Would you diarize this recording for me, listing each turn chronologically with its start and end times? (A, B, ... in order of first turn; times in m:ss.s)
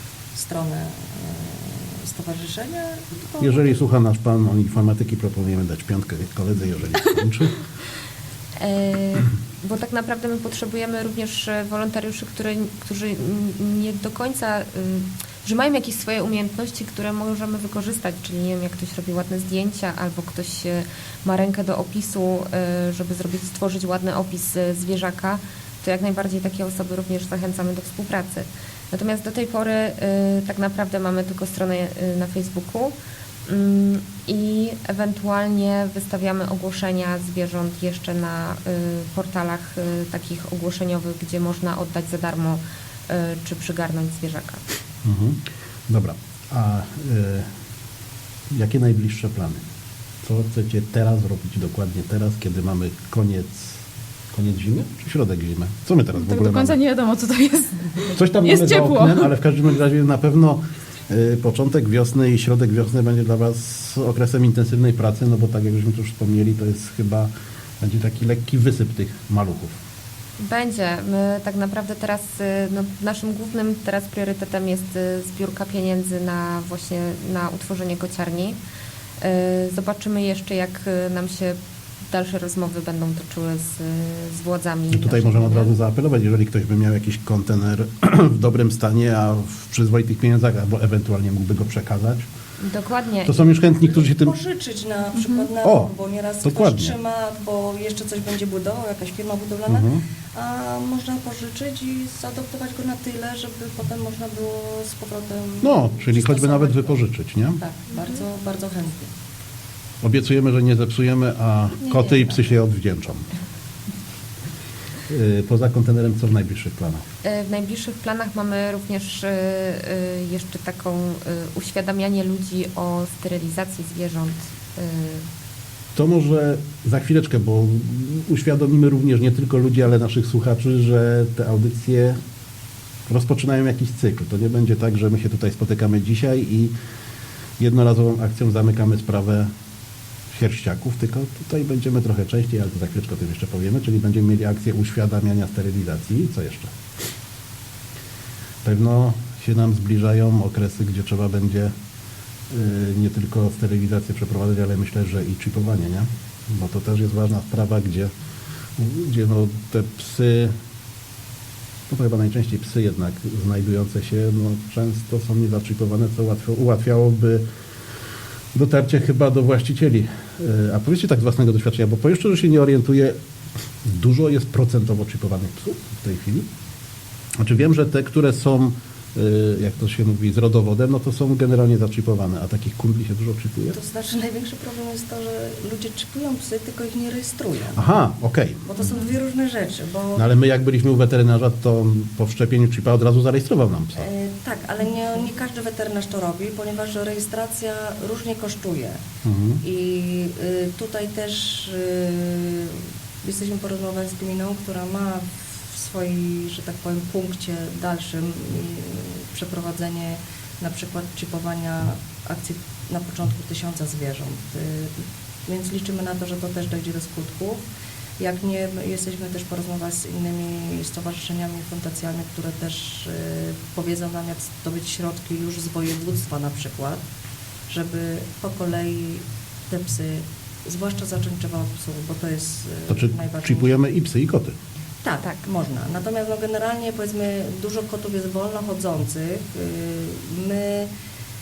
0:00.4-0:03.8 A
0:03.4-0:07.6 B
0:08.6-0:33.0 C
0:33.5-0:44.6 C
0:45.0-0:47.5 B
0:48.5-0:49.6 B
0:50.2-0:53.8 B
0:54.3-0:56.8 B
0:56.2-0:59.3 D
0:58.1-1:09.8 B
1:10.4-1:18.6 C
1:19.2-1:21.6 C
1:22.1-1:25.7 C
1:24.9-1:32.3 B
1:32.6-1:33.4 C
1:33.3-1:34.4 B
1:33.9-1:47.0 A
1:35.6-1:35.9 B
1:36.4-1:37.0 B
1:39.7-1:40.0 B
1:45.6-1:47.6 B
1:47.6-1:49.1 A
1:50.0-1:53.3 B
1:51.8-1:52.5 A
1:55.1-1:57.0 B
1:57.2-2:05.2 C
2:06.0-2:12.2 B
2:13.1-2:16.7 B
2:17.6-2:19.5 B
2:20.3-2:26.8 B
2:28.6-2:31.7 B
2:32.5-2:38.1 B
2:38.8-2:40.5 B
2:41.9-2:47.4 B
2:48.5-2:53.2 B
2:53.8-2:56.5 B
2:57.4-3:03.8 B
3:03.7-3:07.8 A
3:07.8-3:08.6 B
3:08.7-3:10.2 A
3:10.2-3:14.1 B
3:14.0-3:19.0 A
3:19.2-3:19.6 B
3:19.6-3:37.6 A
3:38.2-3:47.0 A
3:47.7-3:53.7 A
3:52.9-3:54.5 B
3:55.0-4:00.9 A